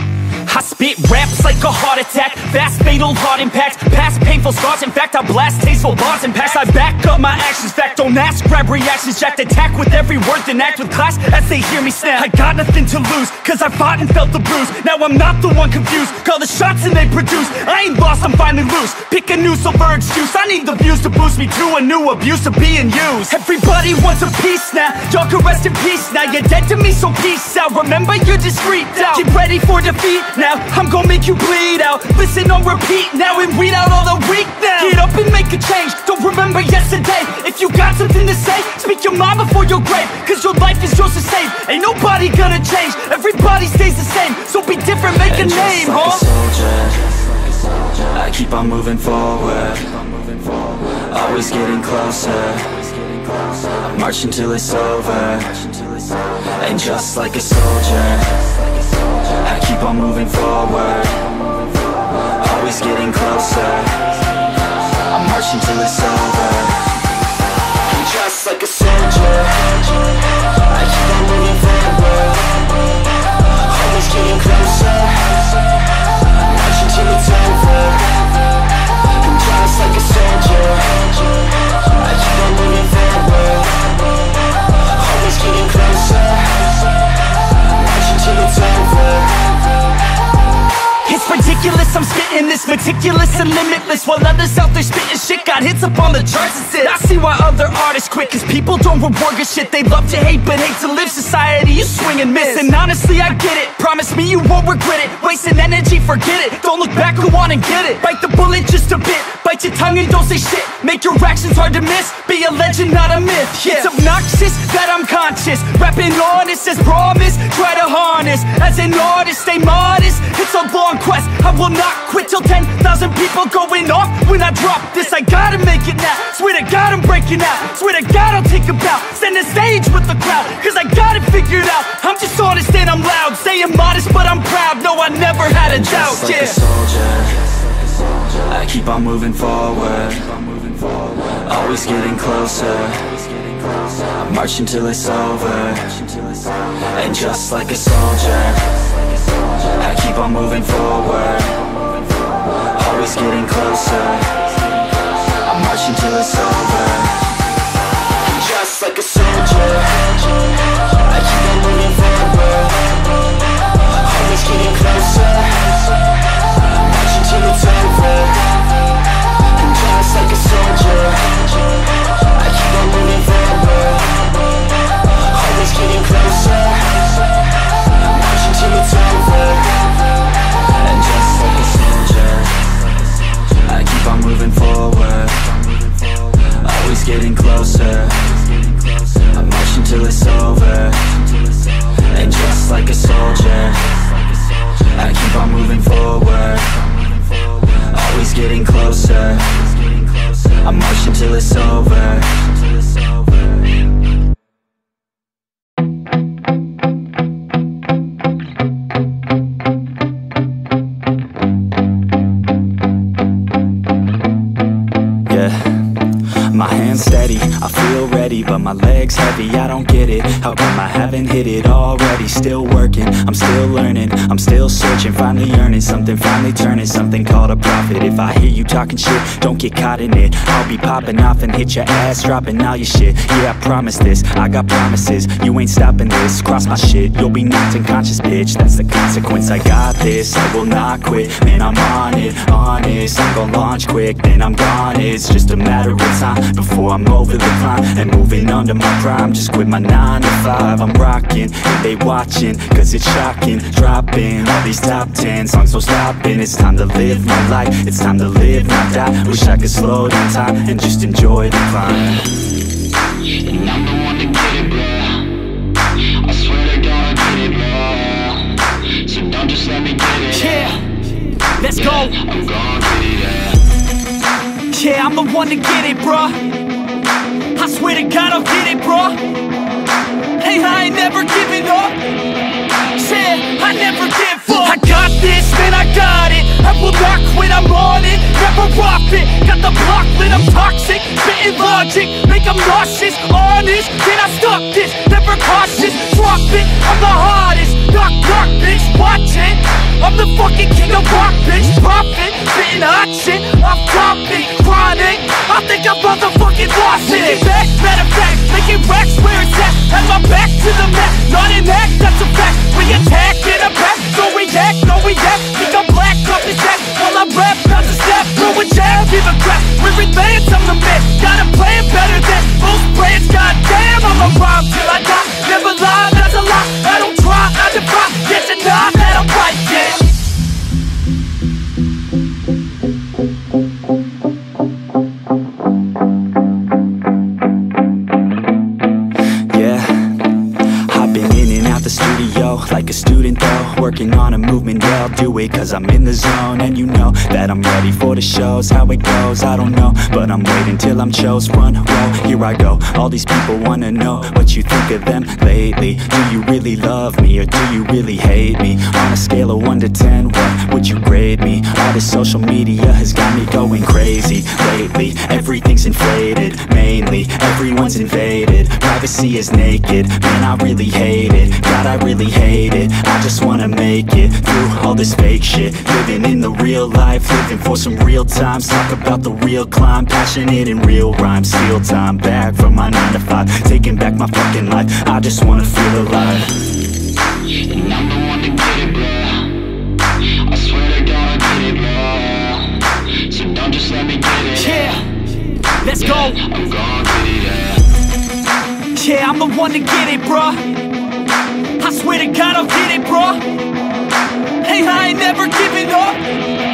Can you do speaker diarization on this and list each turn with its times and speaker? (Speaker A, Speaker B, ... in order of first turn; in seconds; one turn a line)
Speaker A: 0.5-46.2
Speaker B: 21.9-23.0
Speaker B: 45.2-61.6
Speaker B: 62.2-64.2
Speaker B: 65.0-67.0
Speaker C: 68.1-69.4
Speaker B: 71.4-72.3
Speaker B: 74.0-75.3
Speaker B: 77.0-77.8
Speaker B: 79.5-81.1
Speaker B: 82.2-83.5
Speaker B: 85.2-86.6
Speaker B: 88.0-89.5
Speaker A: 91.0-136.6
Speaker B: 102.6-102.9
Speaker B: 135.5-154.6
Speaker B: 155.3-157.3
Speaker B: 158.6-160.0
Speaker B: 161.4-162.3
Speaker B: 164.2-165.7
Speaker B: 170.5-171.4
Speaker B: 172.5-173.7
Speaker B: 175.5-177.1
Speaker B: 178.2-179.9
Speaker B: 180.7-203.8
Speaker B: 215.3-262.3
Speaker C: 263.5-265.3
Speaker C: 266.2-268.5
Speaker C: 269.0-270.1
Speaker A: 270.1-271.0
Speaker A: 271.6-272.6
Speaker C: 272.4-273.6
Speaker A: 274.7-276.7
Speaker A: 277.6-279.4
Speaker A: 280.4-282.1
Speaker A: 283.0-330.1
Speaker B: 339.4-386.6
Speaker C: 387.7-389.5
Speaker C: 390.4-392.7
Speaker C: 393.2-394.4
Speaker A: 394.4-395.2
Speaker A: 395.8-396.7
Speaker C: 396.7-397.7
Speaker A: 398.9-400.9
Speaker A: 401.8-403.6
Speaker A: 404.6-406.4